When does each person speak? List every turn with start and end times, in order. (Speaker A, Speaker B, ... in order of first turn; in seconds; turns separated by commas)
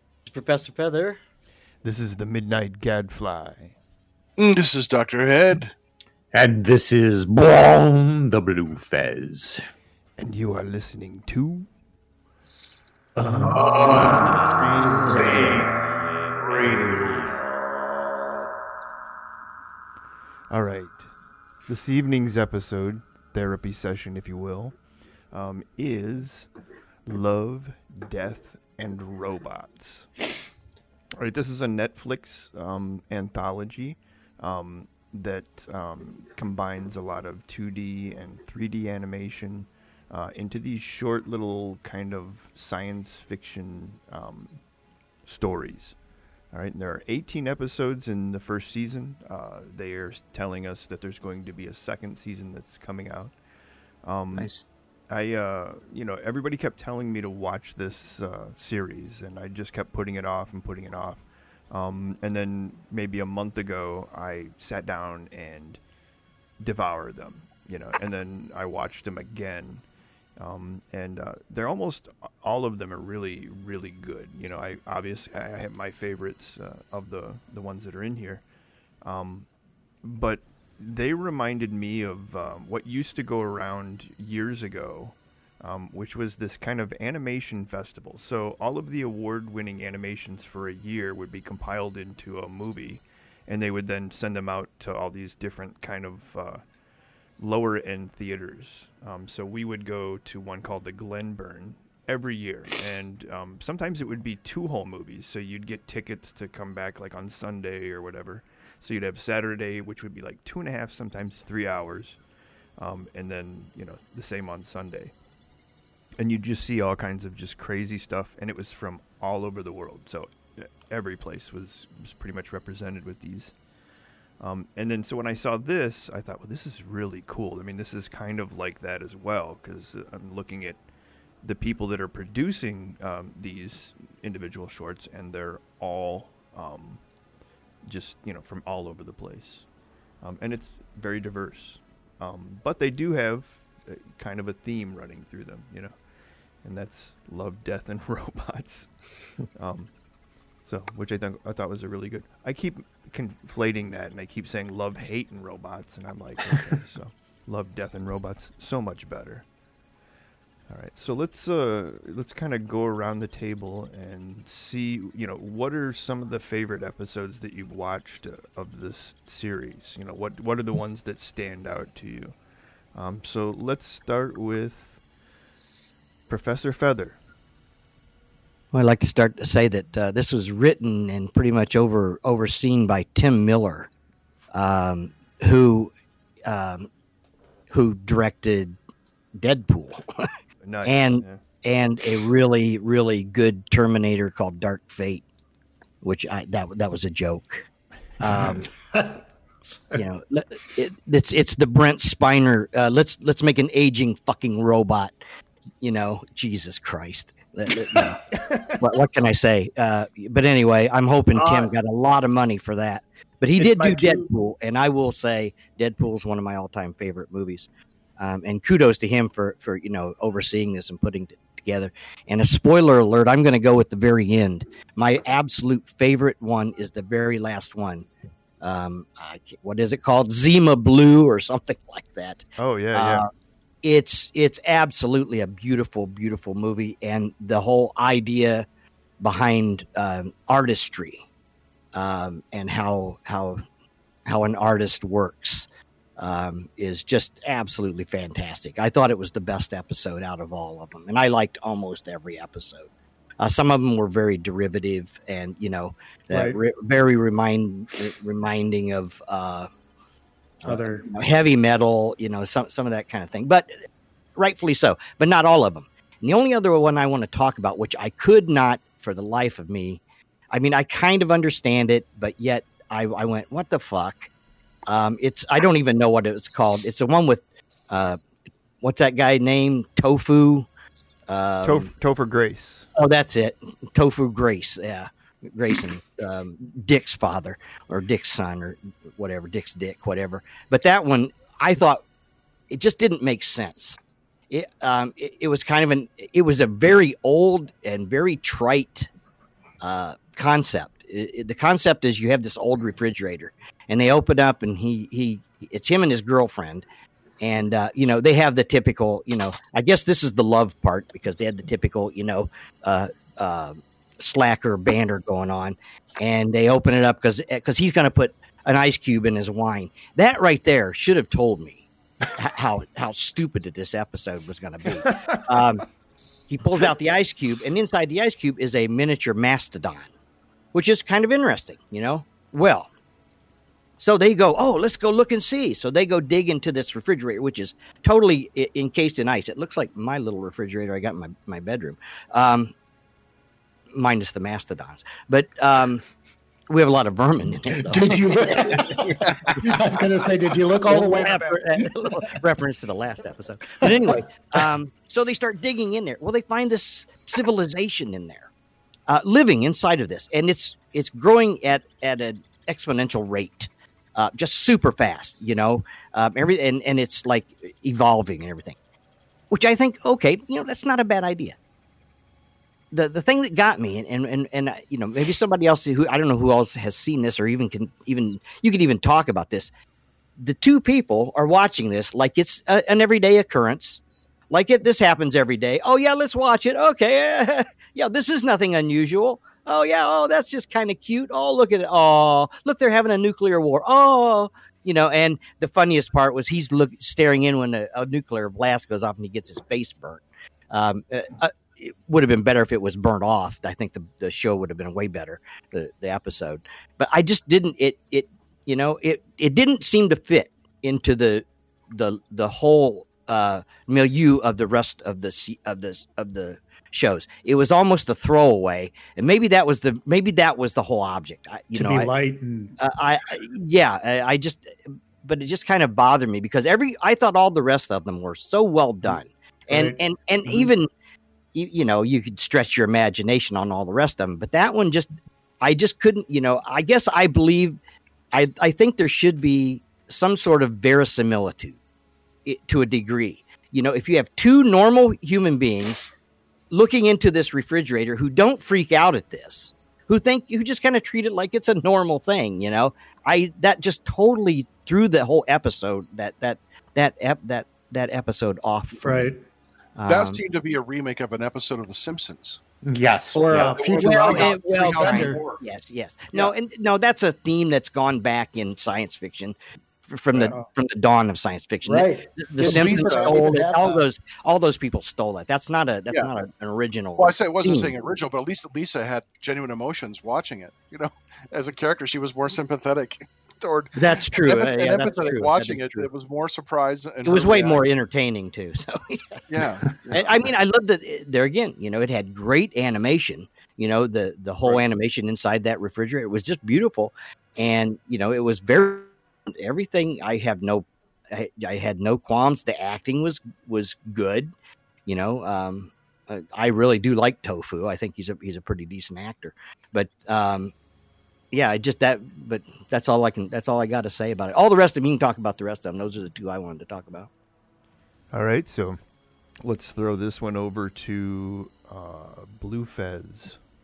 Speaker A: 0.2-1.2, Speaker B: 1.8-3.7, Speaker C: 4.4-5.7, Speaker D: 6.3-9.6, Speaker B: 10.2-11.7, Speaker B: 13.2-15.7, Speaker C: 13.5-14.2, Speaker C: 15.1-15.5, Speaker C: 16.5-16.9, Speaker B: 16.6-17.3, Speaker B: 20.5-21.0, Speaker B: 21.7-24.7, Speaker B: 25.3-26.5, Speaker B: 27.0-30.1, Speaker B: 31.2-44.6, Speaker B: 45.2-45.9, Speaker B: 46.5-53.3, Speaker B: 54.0-54.5, Speaker D: 54.3-54.6, Speaker B: 55.1-65.8, Speaker B: 66.6-69.8, Speaker B: 70.4-78.4, Speaker B: 79.0-79.5, Speaker B: 80.0-96.6, Speaker B: 97.4-112.2, Speaker B: 112.8-115.1, Speaker B: 116.2-123.5, Speaker B: 124.4-130.8, Speaker B: 131.4-137.0, Speaker B: 137.8-139.6, Speaker B: 140.2-145.9, Speaker B: 146.6-148.9, Speaker B: 149.5-149.9, Speaker B: 150.6-159.4, Speaker B: 160.7-172.3, Speaker B: 172.9-175.0, Speaker B: 176.3-177.2, Speaker A: 178.7-183.9, Speaker A: 184.5-185.9, Speaker A: 186.4-186.9, Speaker A: 187.7-188.8, Speaker A: 189.3-190.3, Speaker B: 190.6-191.4, Speaker A: 190.8-195.2, Speaker A: 196.0-197.7, Speaker A: 198.2-198.7, Speaker E: 198.2-199.2, Speaker A: 199.9-205.1, Speaker A: 205.8-228.1, Speaker E: 211.3-211.7, Speaker E: 213.6-214.3, Speaker A: 228.6-233.3, Speaker B: 232.6-233.2, Speaker A: 233.8-238.7, Speaker A: 239.2-241.2, Speaker A: 241.9-243.6, Speaker A: 244.2-245.7, Speaker A: 246.2-252.9, Speaker A: 253.4-259.7, Speaker E: 256.3-256.6, Speaker A: 260.6-263.7, Speaker E: 260.6-261.1, Speaker A: 264.4-274.3, Speaker A: 274.9-278.2, Speaker A: 278.8-280.7, Speaker A: 281.3-281.9, Speaker B: 281.6-282.9, Speaker A: 282.9-292.0, Speaker A: 292.7-294.0, Speaker A: 294.5-299.1, Speaker A: 299.8-306.8, Speaker A: 307.4-325.8, Speaker A: 326.5-330.1, Speaker A: 330.7-332.9, Speaker A: 334.0-342.7, Speaker A: 343.9-346.0, Speaker A: 346.7-349.8, Speaker E: 347.7-352.2, Speaker A: 350.9-358.5, Speaker E: 353.9-354.2, Speaker A: 359.1-368.8, Speaker A: 369.5-371.6, Speaker A: 372.9-379.7, Speaker A: 380.4-422.1, Speaker E: 421.7-422.8, Speaker A: 422.8-430.9, Speaker E: 429.7-430.7, Speaker A: 431.5-437.8, Speaker A: 438.3-441.8, Speaker A: 442.4-446.1, Speaker A: 446.7-459.3, Speaker E: 459.0-459.4, Speaker A: 459.9-460.4, Speaker C: 460.1-462.6, Speaker D: 462.8-463.6, Speaker E: 463.3-465.4, Speaker C: 463.5-465.6, Speaker A: 463.5-477.9, Speaker E: 470.3-470.6, Speaker E: 471.8-474.0, Speaker C: 472.6-473.4, Speaker C: 477.2-487.8, Speaker A: 483.9-486.1, Speaker A: 487.2-489.4, Speaker C: 489.5-490.3, Speaker A: 490.1-504.5, Speaker A: 505.1-510.7, Speaker A: 511.5-517.3, Speaker B: 518.3-519.0, Speaker B: 519.6-523.6